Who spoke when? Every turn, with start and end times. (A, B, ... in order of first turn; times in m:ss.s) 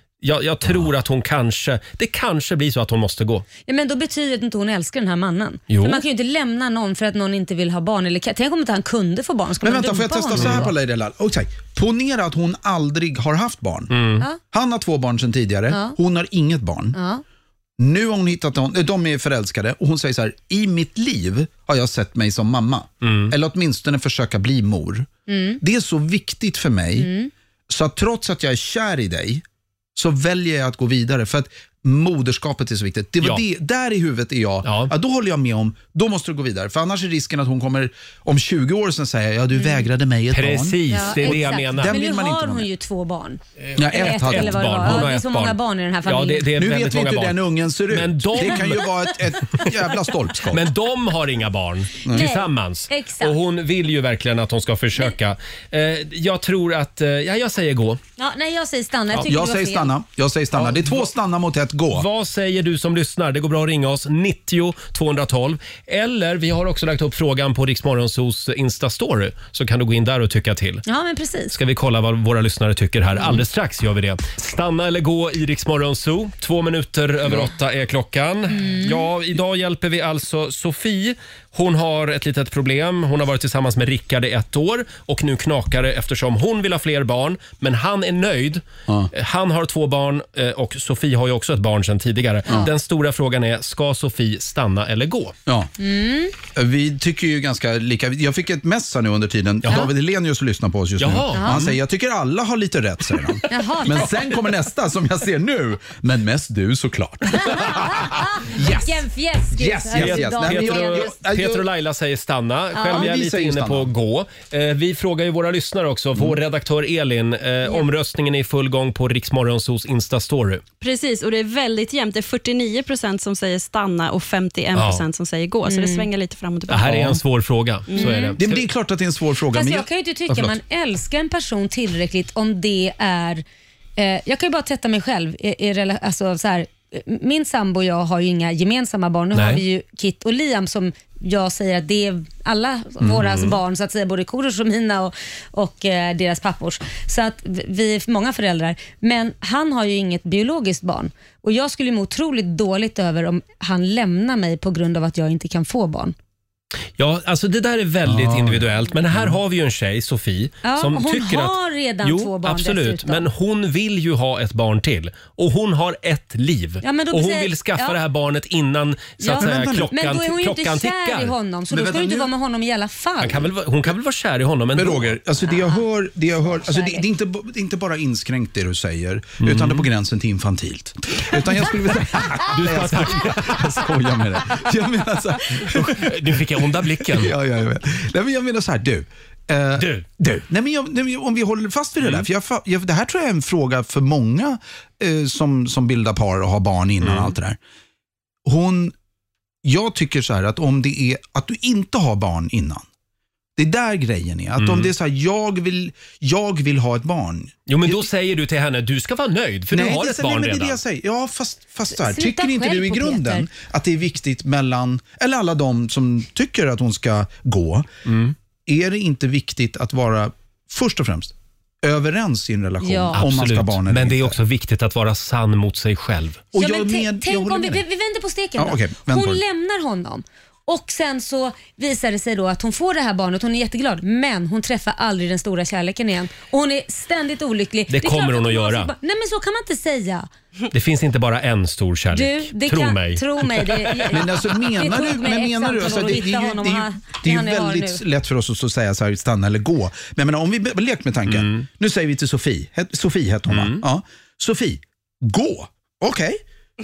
0:00.2-0:03.4 A
0:03.7-0:10.7 B
0:05.7-0:06.0 A
0:09.6-0:17.0 C
0:10.4-0:10.7 A
0:13.9-0:14.3 A
0:15.7-0:16.0 B
0:17.0-0:17.2 B
0:17.8-0:27.1 C
0:23.0-0:23.4 A
0:25.3-0:25.6 B
0:27.0-0:27.3 B
0:27.7-0:29.4 C
0:30.0-0:42.7 C
0:34.6-0:34.9 A
0:39.6-0:39.9 B
0:40.3-0:42.0 A
0:40.9-0:46.5 B
0:43.6-0:48.9 A
0:43.8-0:45.0 C
0:46.6-0:50.7 C
0:48.4-0:48.9 B
0:50.5-0:58.0 A
0:52.1-0:53.4 B
0:58.2-0:59.9 B
0:59.2-1:02.1 C
1:00.6-1:01.1 A
1:01.9-1:10.8 A
1:10.9-1:11.5 B
1:11.5-1:35.4 A
1:18.5-1:19.1 B
1:35.8-1:36.3 B
1:36.4-1:51.7 C
1:41.0-1:41.8 A
1:41.3-1:41.6 B
1:43.5-1:44.2 B
1:47.4-1:51.2 B
1:49.9-2:00.6 A
1:52.7-1:53.1 B
1:52.8-1:53.9 C
2:00.8-2:07.0 D
2:04.8-2:05.0 A
2:05.7-2:06.1 B
2:06.7-2:08.6 A
2:08.0-2:08.4 B
2:08.4-2:10.6 C
2:09.5-2:13.4 B
2:14.0-2:36.2 B
2:19.3-2:19.6 A
2:23.0-2:23.6 A
2:37.0-2:51.3 A
2:38.0-2:39.4 C
2:40.6-2:43.3 B
2:46.8-2:48.0 B
2:49.2-2:53.5 B
2:49.4-2:49.9 C
2:51.7-2:52.3 C
2:53.2-2:55.2 A
2:54.8-3:17.6 C
2:56.6-2:57.0 B
2:59.4-2:59.9 A
3:02.4-3:03.9 A
3:05.6-3:07.4 A
3:09.8-3:10.1 A
3:12.0-3:12.3 A
3:17.0-3:17.4 A
3:18.4-3:18.9 C
3:19.6-3:22.9 C
3:23.6-3:28.0 C
3:24.6-3:24.9 A
3:27.7-3:30.8 A
3:29.7-3:37.9 C
3:31.9-3:33.5 B
3:38.1-3:38.4 A
3:38.7-3:44.4 C
3:42.8-3:43.2 B
3:43.1-3:46.4 A
3:46.5-3:47.8 C
3:46.6-4:00.3 B
3:48.6-3:49.4 C
3:57.9-3:58.9 A
4:00.7-4:04.2 A
4:02.1-4:08.0 B
4:04.1-4:16.4 C
4:11.3-4:11.7 A
4:13.5-4:13.8 A